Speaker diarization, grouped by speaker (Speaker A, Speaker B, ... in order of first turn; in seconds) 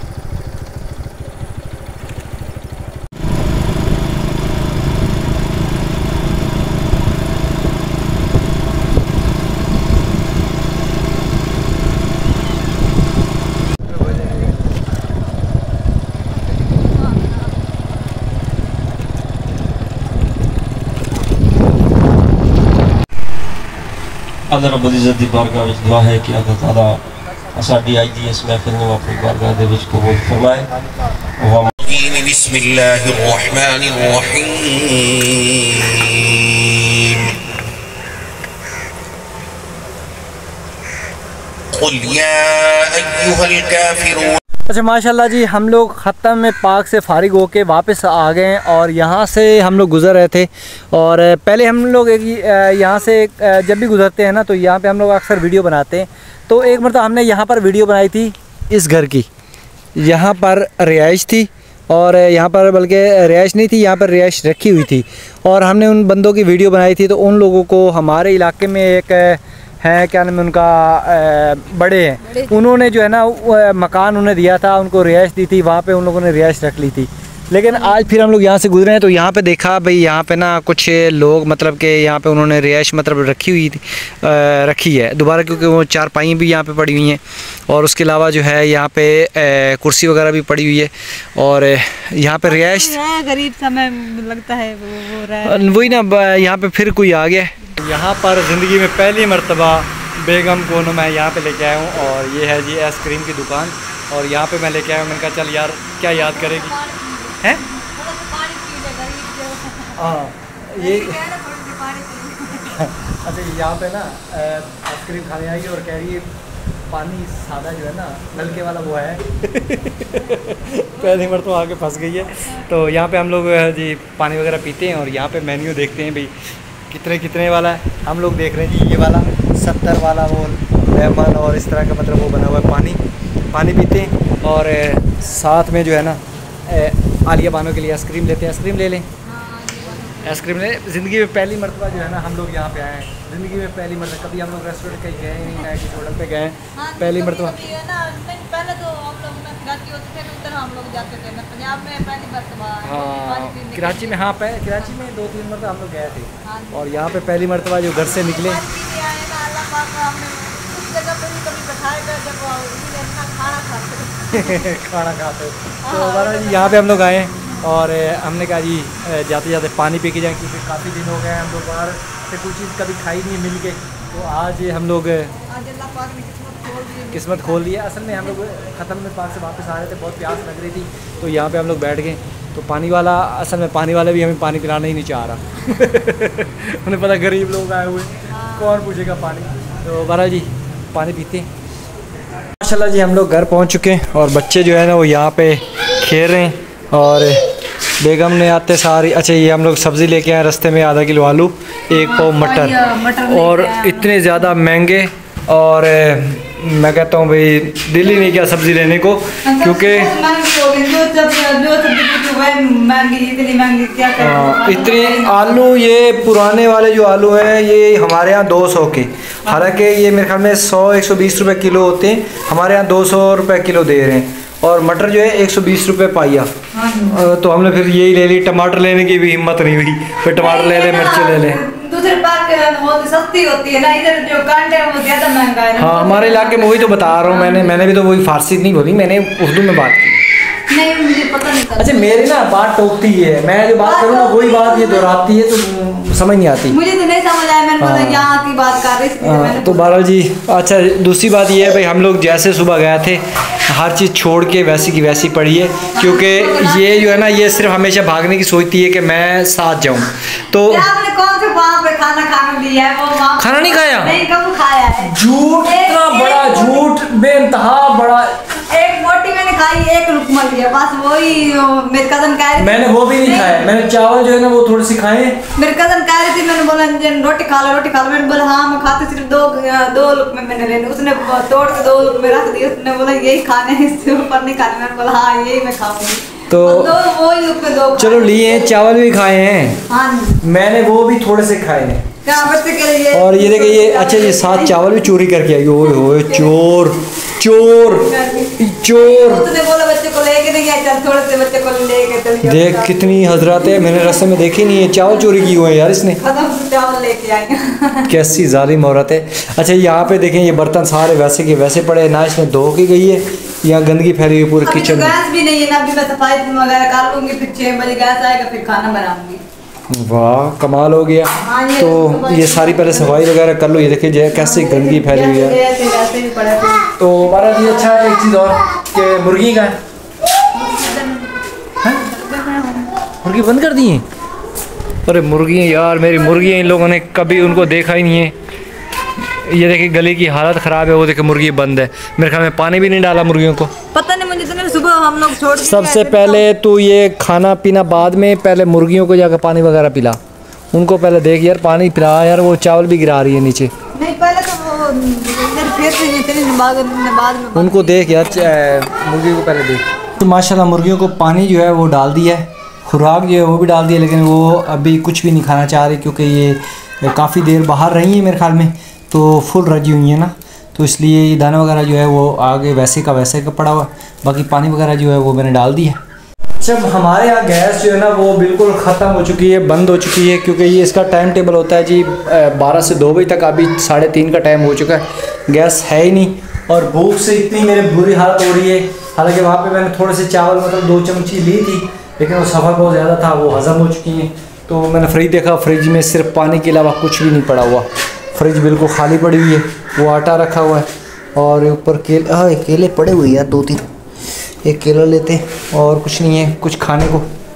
Speaker A: 24.5-27.0, 27.5-30.7, 31.4-31.8
Speaker B: 31.8-37.3, 41.7-44.4
Speaker C: 44.7-59.3, 60.0-93.0, 95.4-106.8, 110.0-111.2, 112.7-116.3, 116.9-126.3, 126.9-139.1, 140.2-147.7, 152.8-158.6, 164.3-175.3, 177.1-191.5, 192.6-197.4, 198.0-210.1, 214.2-226.5, 227.1-231.6, 235.8-240.2, 241.8-246.8, 247.8-248.3, 249.2-260.9, 263.4-264.2, 265.0-268.4, 272.6-275.4, 286.5-286.9, 287.9-289.8, 290.4-292.2, 293.1-299.5, 302.4-306.2, 308.1-315.1, 319.9-325.6, 327.0-329.8, 333.2-334.1, 335.1-338.3, 339.3-343.7, 345.6-350.2, 350.7-353.7, 357.5-376.0, 376.6-403.9, 404.6-407.3
Speaker D: 92.4-96.0, 106.1-110.2, 110.8-112.9, 121.0-121.5, 139.2-140.6, 146.8-154.9, 156.4-157.4, 157.9-164.7, 165.8-167.6, 175.5-178.3, 188.3-188.9, 201.9-204.5, 209.4-215.4, 226.7-227.2, 230.3-237.8, 240.7-242.3, 243.8-245.2, 246.7-250.0, 255.9-257.7, 260.6-266.9, 268.7-273.7, 275.6-288.8, 289.9-290.4, 292.2-294.9, 295.8-296.6, 297.7-308.1, 314.6-319.4, 321.4-323.3, 324.3-327.7, 330.5-332.9, 343.9-346.4, 353.9-358.6